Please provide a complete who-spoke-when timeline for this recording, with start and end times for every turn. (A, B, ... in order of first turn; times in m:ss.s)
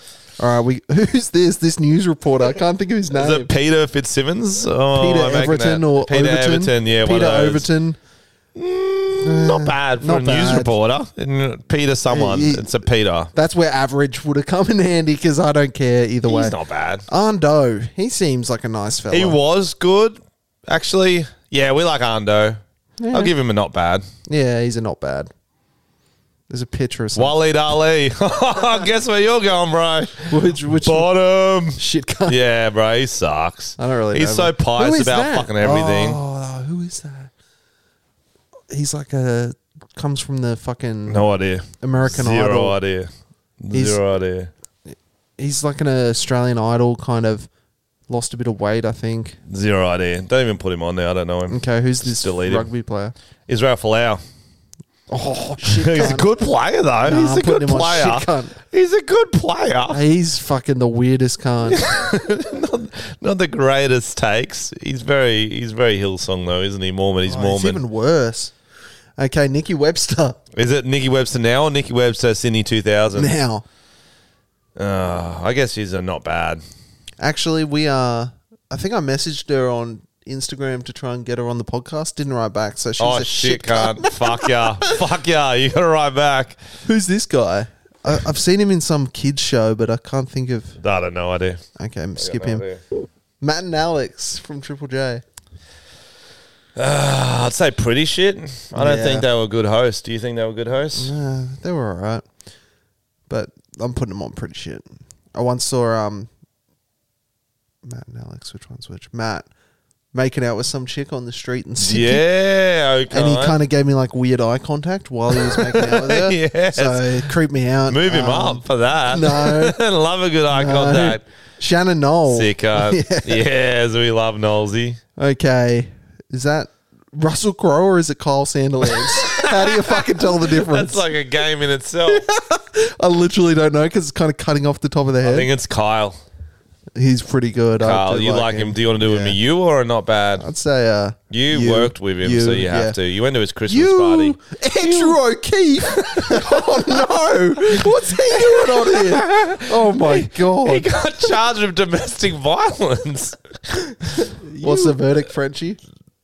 0:00.4-0:03.5 A
0:03.1-0:07.7 B
0:04.9-0:08.0 A
0:08.6-0:13.3 B
0:09.2-0:10.7 A
0:12.1-0:12.8 A
0:13.3-0:19.4 A
0:16.3-0:17.0 B
0:19.1-0:22.6 B
0:23.0-0:23.3 A
0:23.1-0:24.1 B
0:24.3-0:25.3 A
0:26.5-0:27.4 A
0:27.2-0:36.2 B
0:30.3-0:31.1 A
0:31.8-0:32.4 A
0:33.8-0:37.3 A
0:38.7-0:42.8 A
0:41.1-0:44.5 B
0:43.7-0:44.0 A
0:44.9-0:47.5 A
0:48.1-0:49.4 A
0:49.5-0:52.7 B
0:51.5-0:53.2 A
0:53.5-0:54.2 B
0:55.1-0:56.3 A
0:55.7-1:00.0 B
0:57.0-0:58.6 A
0:59.9-1:01.8 A
1:01.7-1:07.8 B
1:07.3-1:08.5 A
1:09.2-1:10.4 A
1:10.6-1:13.3 B
1:13.2-1:13.6 A
1:14.8-1:16.6 B
1:17.2-1:25.0 A
1:23.0-1:26.6 B
1:26.8-1:30.8 A
1:30.8-1:31.6 B
1:31.8-1:32.6 A
1:32.2-1:32.8 B
1:33.4-1:35.2 A
1:36.8-1:41.1 B
1:38.8-1:39.3 A
1:41.0-1:42.2 A
1:43.3-1:46.3 A
1:47.8-1:49.5 A
1:50.1-1:52.3 A
1:51.8-1:53.6 B
1:53.1-1:59.8 A
1:55.3-1:57.3 B
1:57.9-2:01.2 B
2:00.5-2:03.4 A
2:02.3-2:05.0 B
2:05.2-2:11.0 A
2:09.0-2:12.3 B
2:12.1-2:15.5 A
2:15.2-2:16.2 B
2:17.0-2:19.4 A
2:17.8-2:20.5 B
2:20.4-2:23.0 A
2:21.3-2:25.2 B
2:23.7-2:30.9 A
2:26.0-2:27.0 B
2:27.7-2:34.9 B
2:34.4-2:35.8 A